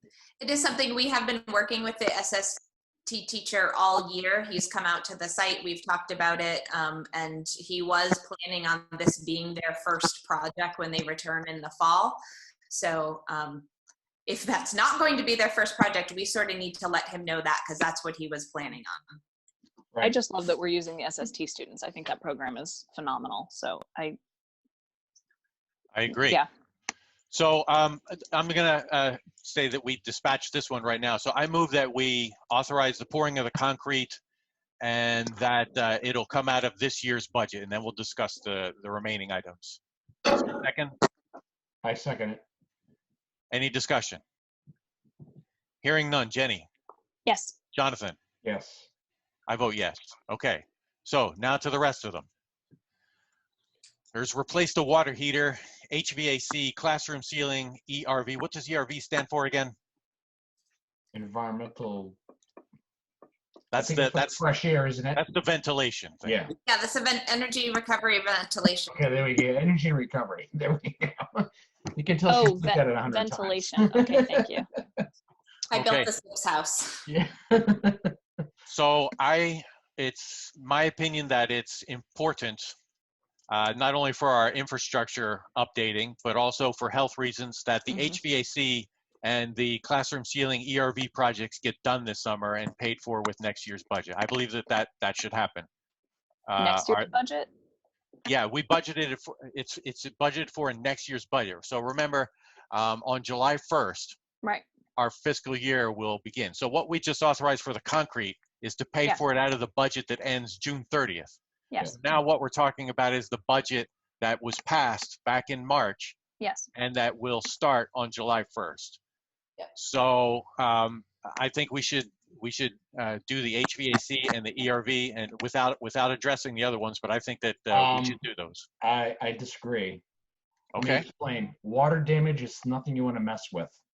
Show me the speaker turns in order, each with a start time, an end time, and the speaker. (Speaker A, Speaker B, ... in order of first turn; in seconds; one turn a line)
Speaker A: 0.4-12.2
Speaker A: 12.7-13.7
Speaker A: 14.2-19.2
Speaker B: 20.0-24.2
Speaker C: 25.9-26.4
Speaker C: 27.3-34.2
Speaker C: 34.8-40.9
Speaker D: 41.8-42.4
Speaker C: 43.5-44.2
Speaker C: 45.8-46.7
Speaker B: 47.2-47.5
Speaker C: 47.7-48.1
Speaker D: 48.4-48.9
Speaker C: 49.5-52.3
Speaker C: 54.1-59.7
Speaker D: 61.1-62.2
Speaker C: 63.7-64.5
Speaker D: 63.7-65.2
Speaker C: 65.1-66.4
Speaker D: 66.2-66.5
Speaker A: 66.7-68.9
Speaker D: 68.9-74.5
Speaker B: 72.3-74.7
Speaker A: 75.7-77.0
Speaker C: 75.7-76.1
Speaker D: 77.1-78.1
Speaker C: 78.7-82.7
Speaker C: 83.5-95.7
Speaker B: 87.9-88.2
Speaker C: 96.5-97.1
Speaker B: 96.6-97.5
Speaker C: 98.2-104.2
Speaker C: 105.0-116.2
Speaker B: 111.7-112.0
Speaker B: 116.4-116.7
Speaker C: 116.7-119.0
Speaker C: 119.7-128.7
Speaker D: 127.7-128.2
Speaker D: 128.8-130.0
Speaker C: 130.7-131.1
Speaker D: 130.8-133.8